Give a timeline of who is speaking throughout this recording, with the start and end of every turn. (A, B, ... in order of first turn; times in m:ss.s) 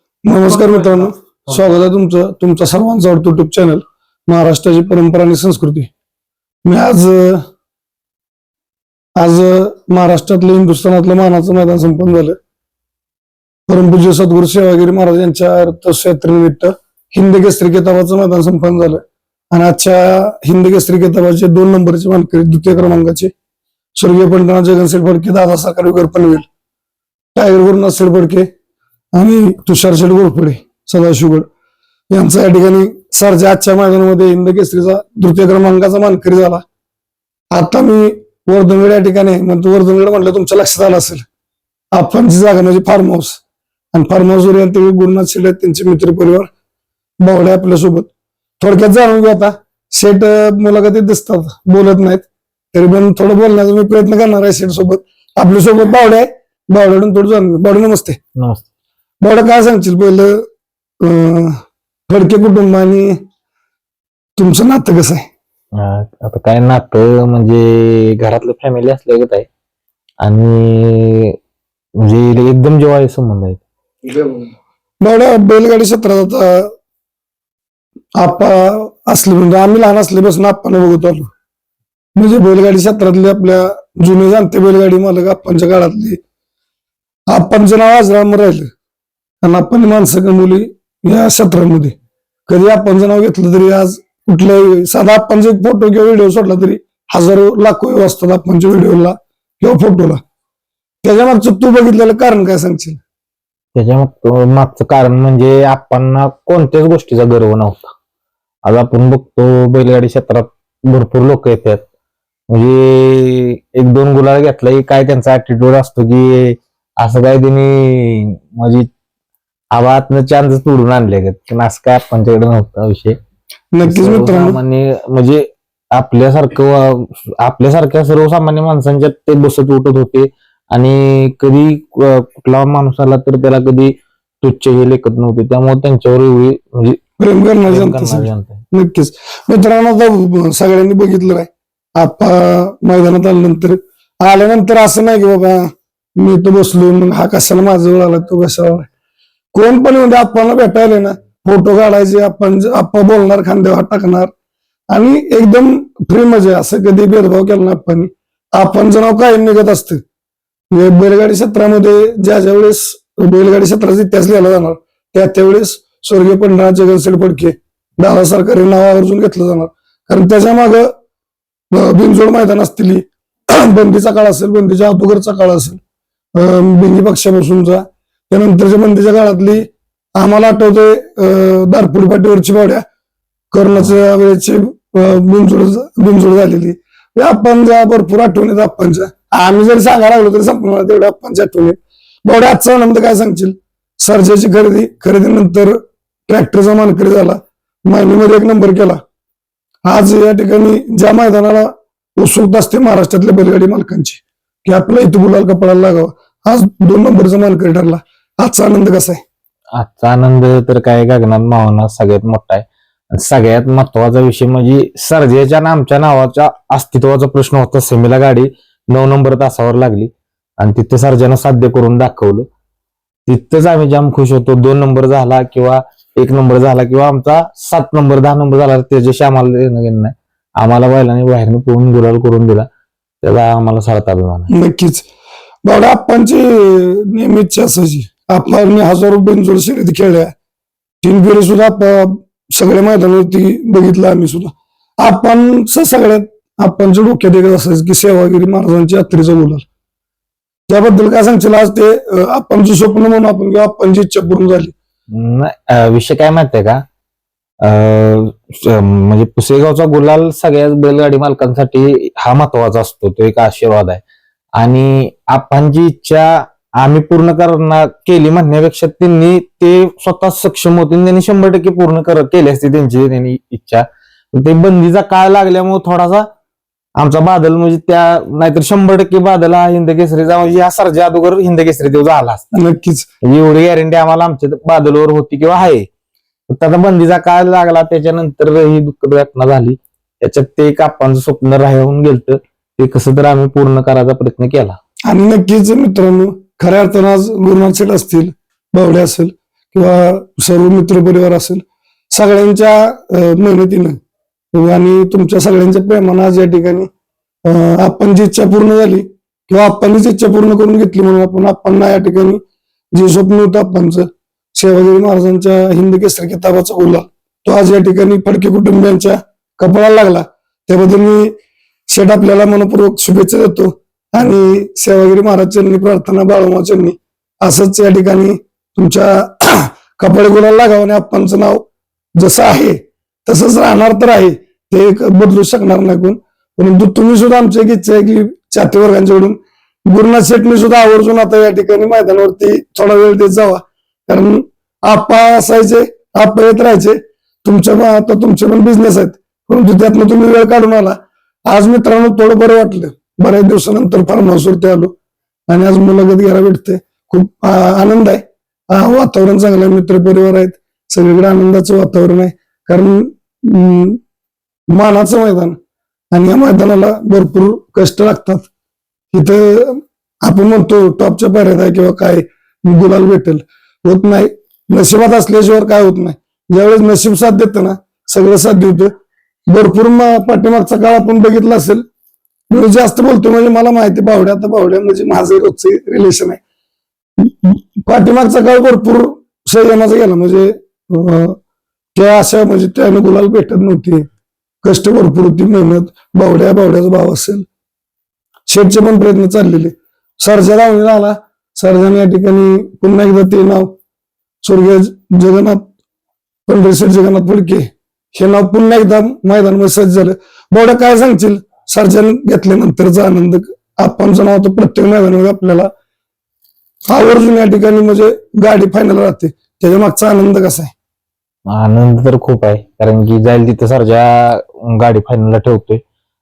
0:00.2-0:05.9 A
0:06.6-0:07.4 A
0:09.2-0:12.4 A
0:13.7-0:19.0 A
0:19.5-0:23.3 A
0:24.0-0:26.5 A
0:27.4-0:28.5 A
0:29.2-0:31.5 A
0:32.1-0:36.6 A
0:37.5-0:41.3 A
0:41.9-0:43.4 A
0:43.9-0:46.5 A
0:47.2-0:58.2 A
0:58.4-0:58.6 B
0:59.2-1:00.4 A
1:01.0-1:01.5 A
1:02.1-1:03.2 A
1:04.4-1:05.3 A
1:05.8-1:09.5 B
1:10.2-1:11.4 B
1:12.0-1:13.6 B
1:15.0-1:16.7 A
1:18.2-1:21.3 A
1:22.2-1:26.2 A
1:27.3-1:28.7 A
1:29.4-1:32.0 A
1:32.5-1:40.2 A
1:41.0-1:43.0 A
1:43.8-1:47.9 B
1:48.7-1:51.8 B
1:52.5-1:58.9 B
1:59.7-2:03.2 B
2:03.7-2:04.6 A
2:03.8-2:17.0 B
2:17.2-2:28.9 A
2:17.6-2:18.6 B
2:29.5-2:34.3 A
2:34.9-2:40.0 A
2:40.7-2:50.9 A
2:51.7-2:55.8 A
2:56.4-3:02.8 A
3:03.5-3:19.0 A
3:19.9-3:29.2 A
3:29.8-3:42.5 B
3:43.3-3:52.7 B
3:53.2-3:54.5 B
3:54.5-3:55.1 A
3:55.6-4:00.3 A
4:01.0-4:09.6 A
4:10.7-4:14.7 A
4:15.2-4:16.8 B
4:17.6-4:24.0 B
4:24.6-4:36.3 B
4:37.0-4:42.4 B
4:42.5-4:43.1 A
4:43.2-4:45.9 B
4:46.5-4:54.8 B
4:55.1-5:04.0 A
5:04.5-5:06.9 A
5:07.5-5:12.4 A
5:12.9-5:21.3 A
5:21.9-5:31.6 A
5:32.2-5:51.0 A
5:51.5-5:54.9 A
5:55.5-6:04.0 A
6:04.7-6:05.6 A
6:06.1-6:08.5 A
6:09.1-6:18.9 A
6:19.5-6:21.8 A
6:22.5-6:26.4 A
6:27.2-6:31.4 A
6:32.0-6:34.0 A
6:34.6-6:37.4 A
6:38.5-6:43.7 A
6:44.4-6:45.7 A
6:46.5-6:55.7 A
6:56.9-7:00.7 A
7:01.5-7:05.8 B